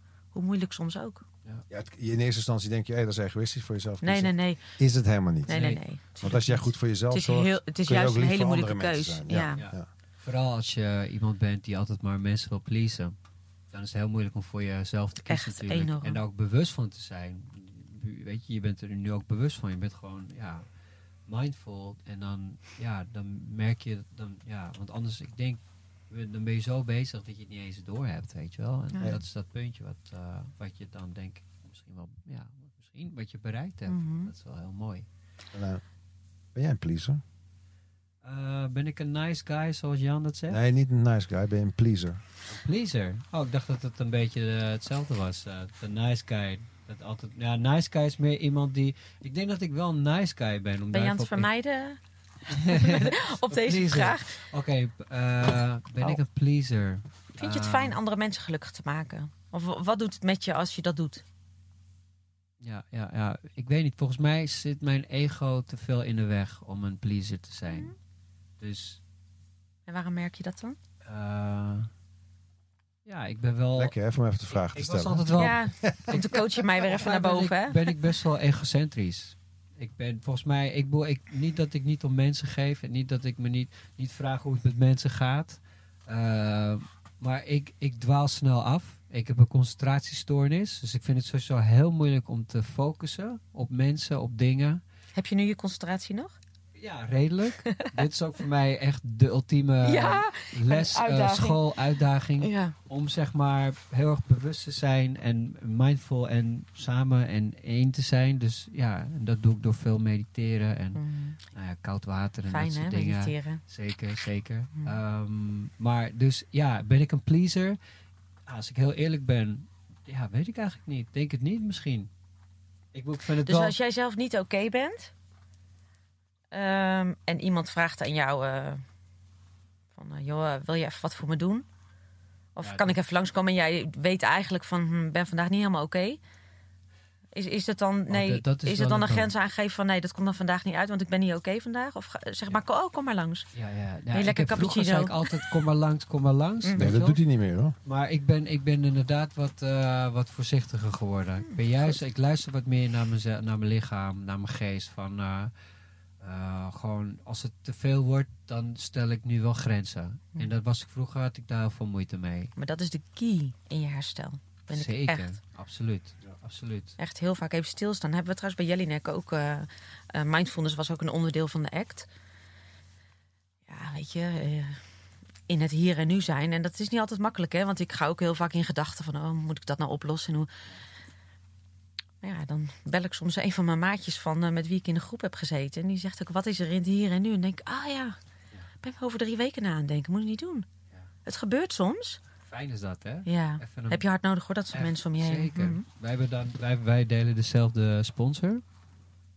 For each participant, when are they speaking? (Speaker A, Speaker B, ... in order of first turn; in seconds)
Speaker A: 0.3-1.2, 4.0-4.6, 5.5-9.6, 15.3-16.2, 33.9-34.3, 50.9-54.4, 57.4-61.2, 67.7-67.9, 69.9-70.8, 75.3-78.0, 95.1-96.3, 99.8-101.7, 102.4-102.7, 111.0-111.4, 112.5-113.6, 123.4-125.1, 126.5-128.8, 129.9-131.7, 132.6-136.2, 137.3-143.5, 144.1-145.5, 146.6-146.9, 151.4-152.0, 162.6-165.3, 167.0-172.1, 173.7-174.8, 175.5-180.5, 182.2-188.2, 188.8-190.7, 191.2-192.2, 193.2-195.8
Speaker B: 1.7-5.6, 6.2-9.9, 35.5-35.8, 36.5-37.2, 40.5-42.2, 73.8-76.4, 146.8-147.8
Speaker C: 5.5-5.8, 9.6-13.1, 13.7-20.6, 21.3-35.0, 38.2-40.6, 42.5-51.5, 52.5-58.0, 62.6-67.9, 68.6-69.0, 71.0-71.9, 73.0-73.9, 74.6-94.8, 96.8-117.8, 118.5-122.1, 122.9-123.7, 132.6-132.9, 138.1-139.3, 143.5-147.2, 147.8-155.5, 156.2-162.5, 164.7-167.0, 192.5-194.0, 194.7-198.6